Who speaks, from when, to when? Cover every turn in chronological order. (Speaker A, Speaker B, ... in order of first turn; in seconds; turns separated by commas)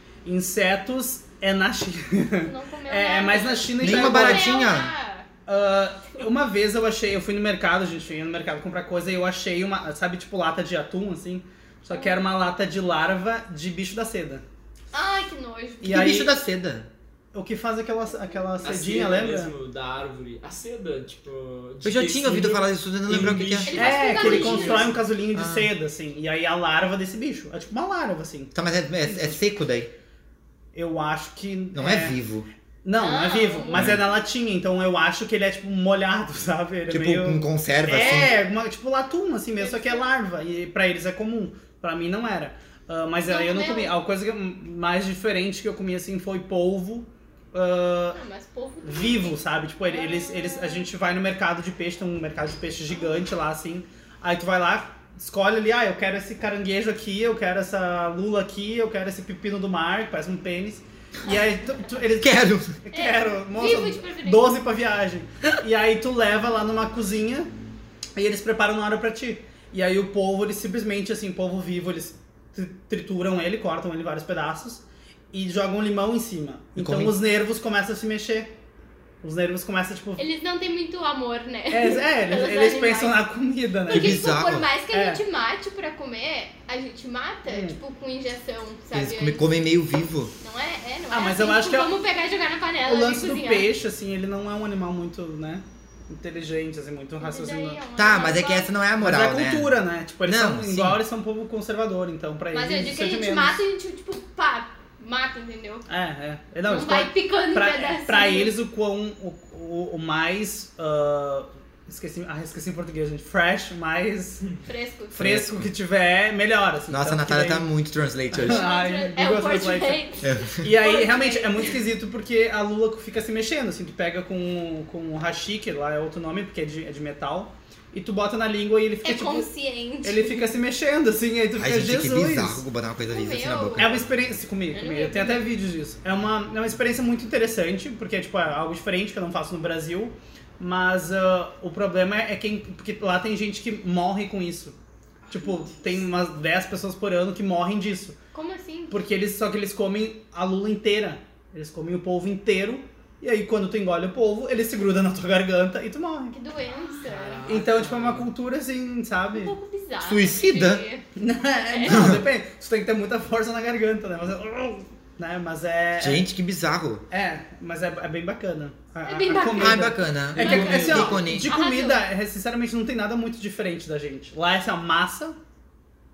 Speaker A: 0.2-4.6, Speaker B: 2.4-5.3, Speaker C: 3.8-4.9, Speaker A: 5.5-14.4, Speaker B: 11.9-12.2, Speaker B: 14.9-16.0, Speaker A: 15.8-16.5, Speaker C: 15.8-16.9, Speaker A: 17.3-19.5, Speaker D: 18.6-25.0, Speaker C: 21.8-23.8, Speaker B: 23.7-24.9, Speaker A: 23.7-29.4, Speaker C: 25.4-25.7, Speaker C: 28.5-29.9, Speaker A: 30.7-32.2, Speaker C: 31.8-32.5, Speaker A: 32.8-48.2, Speaker B: 33.0-34.0, Speaker C: 33.8-34.0, Speaker C: 36.9-38.4, Speaker B: 39.6-40.1, Speaker B: 43.3-43.9, Speaker B: 48.1-50.9, Speaker A: 48.8-67.5, Speaker C: 62.2-62.7, Speaker B: 62.9-64.5, Speaker A: 68.2-78.5, Speaker C: 76.8-77.2, Speaker A: 79.2-80.2, Speaker B: 80.2-83.2, Speaker A: 81.7-84.3, Speaker B: 83.9-89.4, Speaker C: 83.9-84.7, Speaker A: 84.9-85.2, Speaker A: 87.5-87.8, Speaker C: 88.9-90.3, Speaker B: 90.4-93.7, Speaker A: 91.1-92.0, Speaker A: 92.8-97.8, Speaker B: 97.2-98.7, Speaker C: 98.0-101.0, Speaker A: 99.0-103.6, Speaker B: 102.5-105.9, Speaker A: 105.9-114.4, Speaker B: 106.7-108.5, Speaker B: 114.7-115.3, Speaker A: 115.1-117.7, Speaker C: 115.2-115.6, Speaker C: 116.9-118.7, Speaker A: 118.3-120.0, Speaker B: 118.4-121.8, Speaker C: 120.2-120.7, Speaker A: 120.6-129.5, Speaker B: 129.0-130.5, Speaker A: 130.0-132.6, Speaker C: 131.6-134.0, Speaker B: 133.1-133.9, Speaker A: 133.8-144.8, Speaker B: 134.7-135.5, Speaker A: 145.3-148.2, Speaker B: 148.3-149.0, Speaker A: 148.9-156.4, Speaker B: 156.3-157.4, Speaker D: 157.0-158.3, Speaker A: 157.4-159.6, Speaker B: 159.3-161.1, Speaker C: 160.0-160.8, Speaker A: 161.2-166.2, Speaker B: 161.7-162.1, Speaker C: 161.9-162.2, Speaker C: 166.0-167.0, Speaker A: 167.1-175.4, Speaker B: 169.1-172.0, Speaker C: 169.5-171.5, Speaker D: 170.3-171.1